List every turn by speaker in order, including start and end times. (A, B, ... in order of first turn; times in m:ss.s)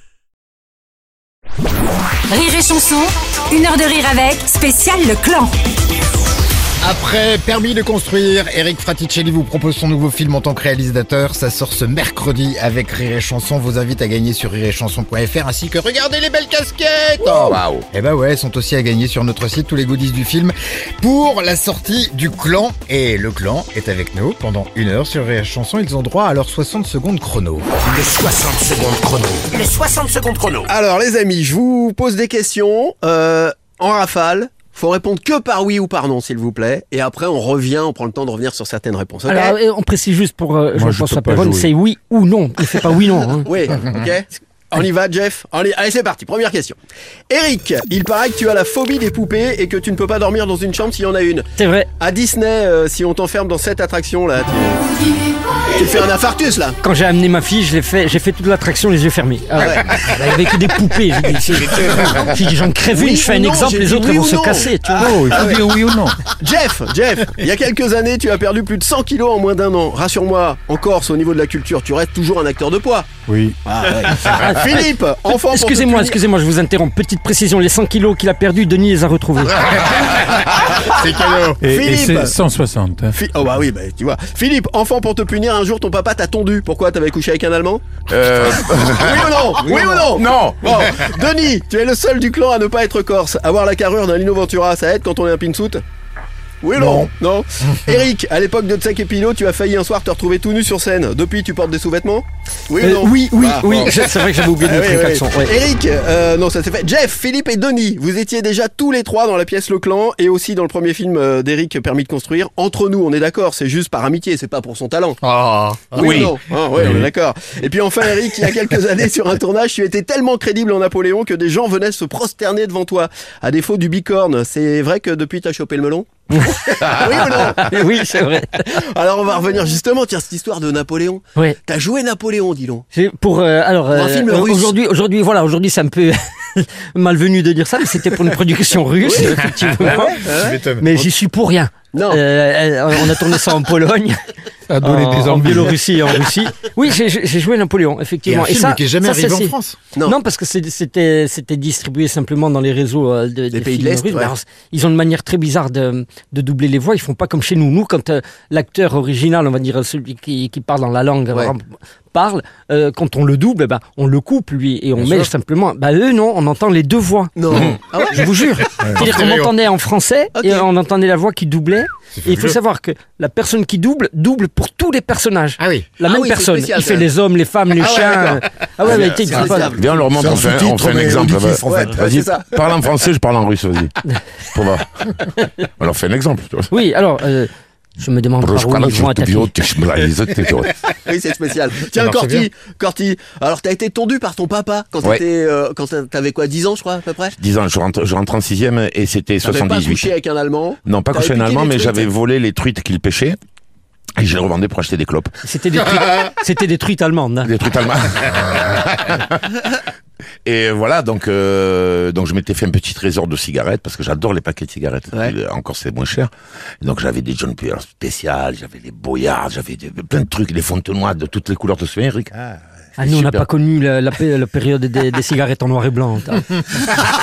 0:02.3-0:05.6 A
0:06.8-0:27.7 B
0:17.4-0:17.8 C
0:27.8-0:30.7 D
0:30.6-0:39.6 E
0:39.3-0:43.5 F
0:40.7-0:41.7 G
0:43.4-0:46.8 E
0:47.3-0:51.4 E
0:51.6-0:51.9 F
0:52.0-0:54.9 E
0:55.8-0:56.8 E
0:56.8-1:05.1 F
0:59.6-0:59.8 E
1:02.9-1:05.7 E
1:04.9-1:06.2 G
1:06.4-1:13.1 E
1:13.3-1:13.6 G
1:13.6-1:16.2 E
1:14.2-1:19.7 F
1:19.9-1:21.6 B
1:21.6-1:23.2 G
1:21.6-1:22.4 E
1:23.1-1:27.8 E
1:28.1-1:30.7 C
1:28.9-1:35.8 E
1:36.6-1:55.2 E
1:36.8-1:37.1 B
1:42.8-1:45.6 F
1:55.2-1:56.3 B
1:55.9-2:07.8 E
1:56.0-1:56.3 C
2:06.3-2:08.7 F
2:08.6-2:12.8 E
2:12.9-2:20.2 F
2:13.9-2:14.7 E
2:19.0-2:21.1 E
2:19.8-2:20.9 B
2:20.8-2:24.2 F
2:21.9-2:22.2 E
2:24.7-2:25.8 G
2:24.8-2:59.7 F
2:28.2-2:29.8 B
2:33.5-2:34.3 E
2:45.0-2:45.2 B
2:47.4-2:48.3 E
2:48.8-2:49.5 B
2:50.3-2:50.7 E
2:52.1-2:52.6 B
2:55.6-2:55.9 B
2:56.0-2:57.1 E
2:57.8-3:00.3 E
2:59.6-3:06.7 C
3:00.1-3:01.6 B
3:01.6-3:02.5 E
3:06.7-3:09.5 F
3:08.4-3:10.8 C
3:11.0-3:17.4 E
3:11.9-3:12.5 B
3:17.4-3:20.1 C
3:19.4-3:22.1 E
3:20.8-3:23.4 C
3:24.2-3:25.3 C
3:25.4-3:27.5 F
3:27.4-3:29.4 C
3:30.4-3:42.3 C
3:43.0-3:46.6 F
3:43.0-3:43.5 C